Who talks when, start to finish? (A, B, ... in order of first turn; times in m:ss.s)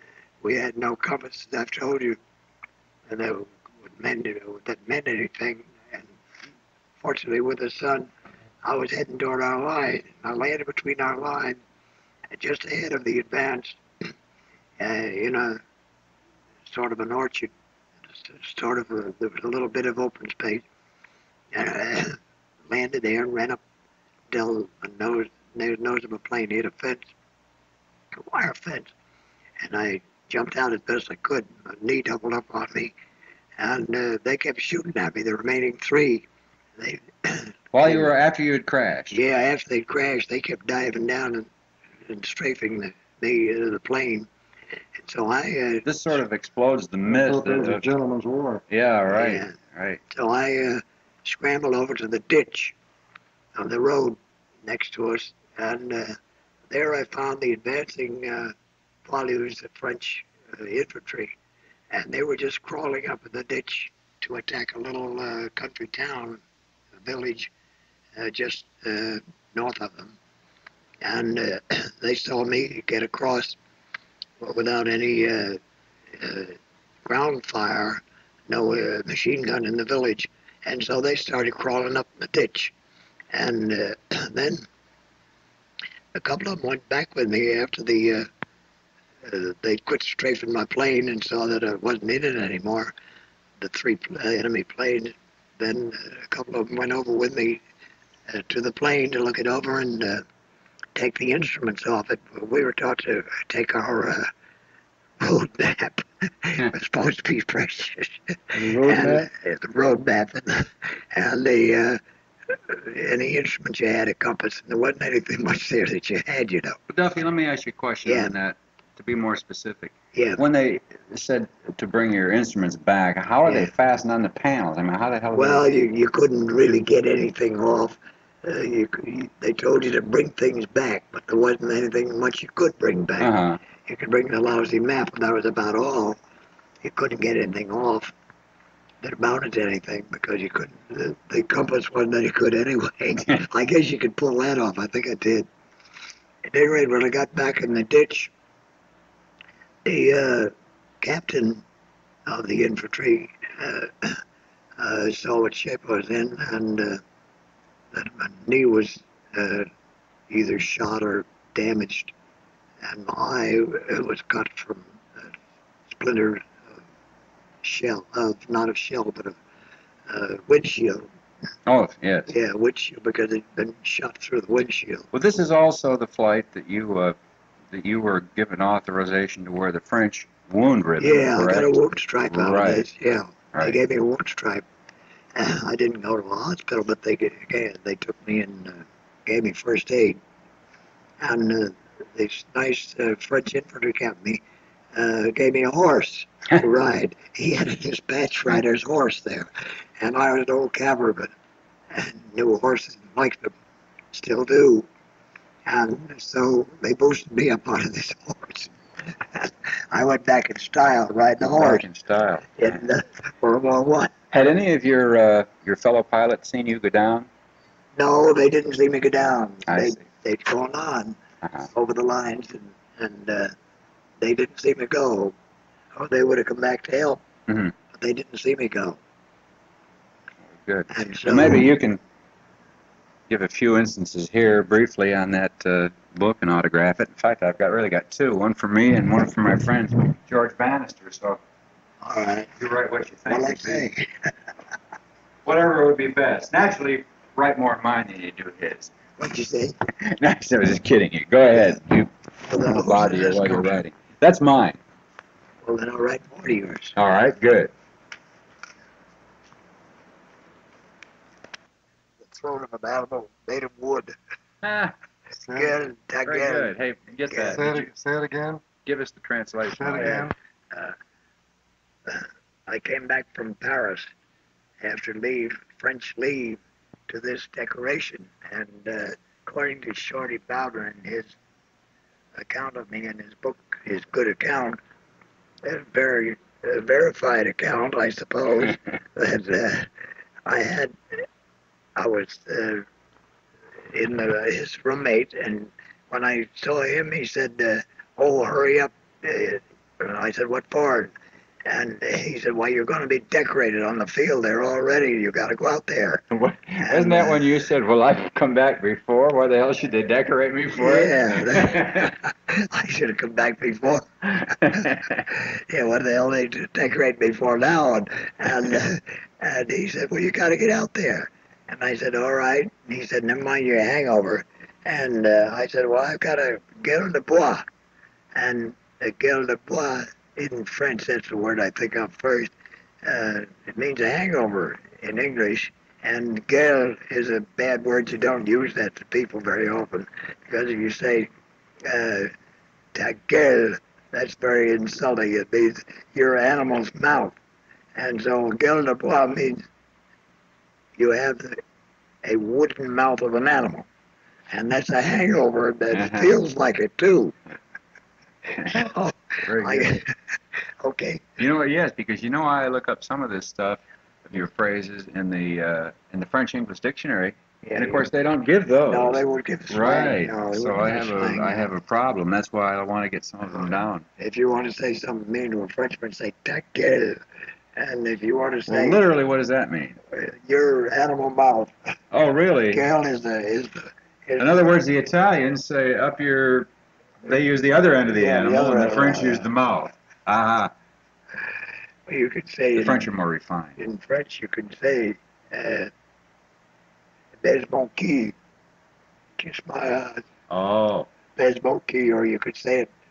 0:00.4-0:02.2 A
0:03.1-0:06.1 A
0:07.0-0:08.1 A
0:08.6-0:11.6 A
0:12.3-0:13.8 A
0:14.8-0:15.6 A
0:16.7-0:17.5 A
0:18.1-0:20.6 A
0:21.5-0:22.2 A
0:22.7-0:23.6 A
0:24.3-0:27.1 A
0:28.1-0:28.9 A
0:29.6-0:32.9 A
0:33.6-0:36.2 A
0:36.8-0:38.1 A
0:37.7-0:39.2 B
0:39.1-0:41.5 A
0:42.0-0:44.3 A
0:45.0-0:45.9 A
0:45.8-0:47.8 B
0:47.1-0:48.6 C
0:48.7-0:50.0 B
0:49.1-0:49.5 A
0:50.1-0:52.8 A
0:53.6-0:56.2 A
0:56.7-0:58.5 A
0:59.0-1:01.3 A
1:01.9-1:06.4 A
1:07.0-1:07.5 A
1:08.2-1:10.2 A
1:11.0-1:13.6 A
1:14.4-1:15.6 A
1:16.2-1:16.6 A
1:17.1-1:22.7 A
1:23.3-1:24.6 A
1:26.1-1:28.3 A
1:29.2-1:32.9 A
1:33.6-1:37.6 A
1:38.3-1:40.2 A
1:41.0-1:44.3 A
1:45.2-1:56.8 A
1:48.6-1:49.3 C
1:56.9-2:05.6 B
1:58.0-1:58.3 A
2:00.1-2:00.4 A
2:03.4-2:03.7 A
2:05.3-2:13.3 A
2:13.2-2:13.6 B
2:13.8-2:16.2 A
2:16.8-2:18.1 A
2:19.0-2:25.5 A
2:26.5-2:28.3 A
2:29.8-2:31.6 A
2:32.2-2:34.2 A
2:34.8-2:37.0 A
2:37.9-2:39.7 A
2:40.3-2:42.1 A
2:42.8-2:45.0 A
2:45.9-2:46.5 A
2:47.6-2:49.4 A
2:50.1-2:51.1 A
2:51.6-2:52.3 B
2:52.3-2:55.1 A
2:55.1-2:57.2 B
2:57.7-3:01.7 B
3:01.0-3:04.6 A
3:02.3-3:02.8 B
3:05.3-3:10.2 A
3:11.2-3:14.4 A
3:14.9-3:19.5 A
3:20.0-3:21.3 A
3:21.9-3:23.5 A
3:24.1-3:24.9 A
3:25.6-3:28.7 A
3:29.3-3:31.8 A
3:31.5-3:32.8 B
3:32.5-3:34.3 A
3:34.3-3:37.3 B
3:38.0-3:41.2 A
3:39.7-3:40.0 B
3:41.4-3:41.7 B
3:41.7-3:43.5 A
3:44.2-3:45.3 A
3:45.9-3:47.2 A
3:47.5-3:47.7 B
3:47.9-3:49.0 A
3:50.5-3:52.0 B
3:50.9-3:51.7 A
3:53.3-4:01.4 B
4:02.0-4:02.5 A
4:02.6-4:03.9 B
4:03.3-4:04.3 A
4:05.4-4:08.9 B
4:09.2-4:09.8 A
4:10.0-4:14.8 B
4:12.5-4:13.8 A
4:15.6-4:17.0 A
4:17.0-4:17.7 B
4:22.2-4:24.2 A
4:24.6-4:24.9 B
4:25.4-4:25.7 C
4:25.5-4:26.7 A
4:26.2-4:27.9 B
4:27.3-4:27.6 A
4:27.5-4:28.6 C
4:28.8-4:30.3 B
4:29.7-4:30.3 C
4:30.0-4:30.9 A
4:32.1-4:34.1 A
4:34.8-4:41.3 A
4:42.4-4:44.8 A
4:45.6-4:49.9 A
4:50.4-4:51.0 A
4:52.0-4:52.8 A
4:53.9-5:01.1 A
5:01.6-5:06.2 A
5:06.3-5:12.1 B
5:06.8-5:07.6 A
5:10.7-5:27.7 A
5:14.7-5:15.0 B
5:28.3-5:32.5 A
5:33.0-5:41.3 A
5:41.8-5:42.3 A
5:42.9-5:47.4 A
5:48.0-5:49.6 A
5:51.0-5:51.6 A
5:52.2-5:53.8 A
5:54.5-5:57.3 A
5:55.9-5:56.3 B
5:58.6-6:00.0 A
5:59.5-6:00.0 B
6:00.8-6:01.2 A
6:01.4-6:14.0 B
6:07.6-6:08.0 A
6:08.9-6:11.7 A
6:13.5-6:17.2 A
6:17.8-6:19.0 A
6:18.7-6:20.0 B
6:20.1-6:21.7 A
6:22.1-6:22.8 B
6:22.7-6:24.8 A
6:24.4-6:26.7 B
6:27.2-6:30.7 B
6:28.1-6:29.5 A
6:32.1-6:33.0 A
6:32.7-6:33.8 B
6:33.8-6:35.9 A
6:37.4-6:38.3 A
6:39.4-6:40.2 A
6:40.5-6:41.1 B
6:41.4-6:42.9 A